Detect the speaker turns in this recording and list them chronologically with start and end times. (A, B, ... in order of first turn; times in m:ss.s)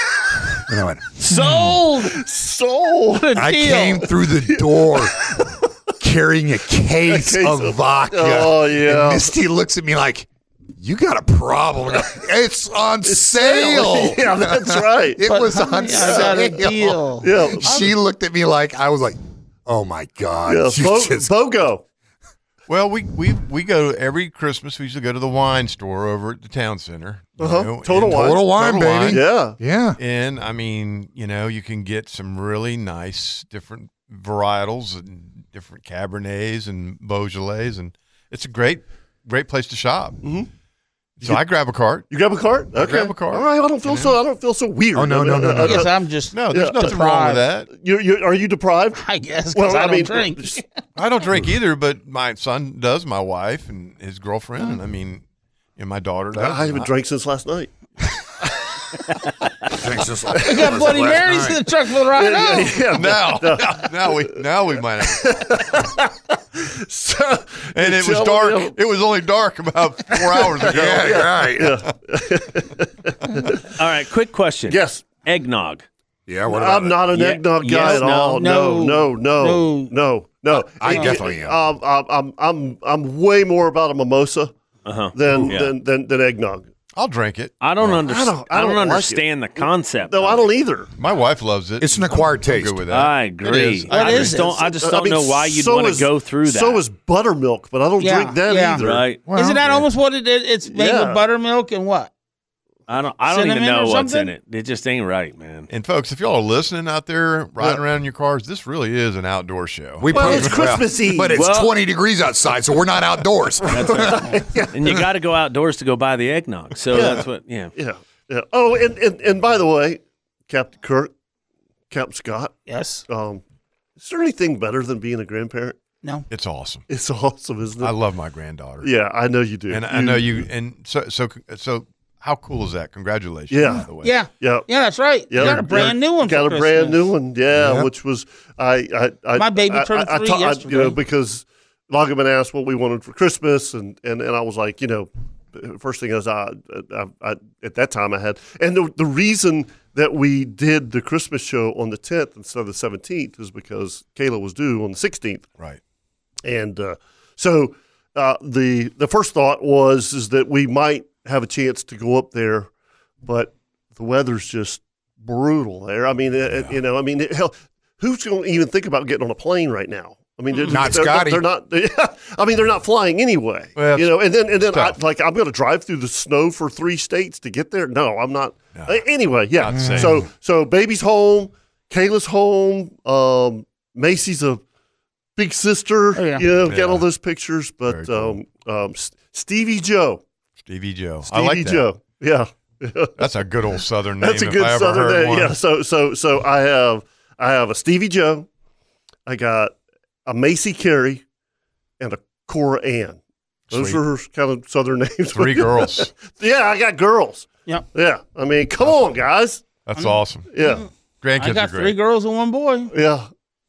0:00.5-0:01.0 A
0:01.4-0:05.4 B
0:03.2-0:04.0 C
0:03.3-0:05.3 A
0:06.0-0:21.3 A
0:07.0-0:09.3 B
0:13.0-0:15.2 B
0:15.2-0:17.3 C
0:15.9-0:16.4 B
0:17.2-0:18.0 B
0:20.5-0:21.8 B
0:22.7-0:28.3 D
0:27.4-0:29.6 B
0:28.0-0:30.0 A
0:28.9-0:29.2 D
0:30.0-0:40.2 D
0:40.2-0:40.5 B
0:41.2-0:42.1 D
0:42.1-0:45.9 B
0:42.8-0:44.2 D
0:44.9-0:45.9 A
0:45.6-0:47.4 C
0:46.3-0:47.7 D
0:46.5-0:47.0 B
0:47.7-0:49.0 B
0:49.0-0:50.6 C
0:49.5-0:50.6 B
0:51.0-0:55.2 D
0:55.8-0:56.9 D
0:56.3-0:57.7 B
0:59.7-1:01.6 A
1:00.4-1:02.8 C
1:00.5-1:00.8 B
1:02.1-1:04.3 B
1:02.9-1:05.6 D
1:05.0-1:08.8 B
1:07.7-1:11.3 D
1:10.6-1:11.8 A
1:10.6-1:13.7 B
1:13.8-1:15.9 E
1:14.7-1:15.1 B
1:16.3-1:17.1 A
1:16.5-1:24.5 B
1:17.1-1:18.4 E
1:17.7-1:19.9 C
1:20.5-1:21.6 A
1:20.8-1:21.2 C
1:24.8-1:25.7 E
1:25.2-1:26.7 B
1:27.0-1:28.0 D
1:27.6-1:30.4 E
1:28.0-1:30.9 B
1:31.0-1:34.5 D
1:31.8-1:32.8 A
1:32.9-1:36.8 E
1:33.9-1:34.5 C
1:34.3-1:39.0 B
1:38.0-1:42.1 C
1:38.8-1:39.2 E
1:39.3-1:39.7 A
1:40.7-1:41.2 B
1:42.9-1:45.7 E
1:43.3-1:44.3 C
1:45.7-1:50.6 D
1:50.0-1:54.4 A
1:50.1-1:51.4 B
1:51.3-1:51.7 E
1:53.7-1:57.7 E
1:53.9-1:55.1 B
1:54.1-1:54.4 C
1:56.9-2:01.1 B
2:01.9-2:03.4 B
2:02.7-2:03.0 C
2:04.0-2:05.8 B
2:06.3-2:06.8 D
2:06.9-2:07.9 B
2:07.8-2:08.9 D
2:08.8-2:10.5 B
2:09.7-2:14.3 D
2:13.5-2:14.7 B
2:14.0-2:17.1 C
2:15.3-2:35.5 B
2:15.5-2:15.9 A
2:17.6-2:17.9 D
2:19.4-2:21.0 C
2:36.4-2:42.7 B
2:43.2-3:04.6 B
2:46.5-2:46.8 D
2:50.5-2:50.9 C
2:50.7-2:51.4 A
2:53.8-2:55.0 D
2:58.7-2:59.0 D
2:59.6-3:00.2 D
2:59.7-3:00.2 A
3:05.4-3:10.2 B
3:06.2-3:06.5 C
3:06.6-3:07.1 D
3:07.8-3:08.4 D
3:10.6-3:11.9 D
3:11.2-3:18.5 B
3:13.2-3:15.6 D
3:19.3-3:19.7 B
3:20.3-3:21.2 B
3:22.0-3:23.2 B
3:23.7-3:24.0 D
3:23.7-3:29.7 B
3:25.3-3:26.1 D
3:28.8-3:29.2 D
3:29.8-3:30.5 D
3:30.0-3:32.9 C
3:30.5-3:30.8 B
3:31.2-3:32.0 D
3:32.9-3:33.3 B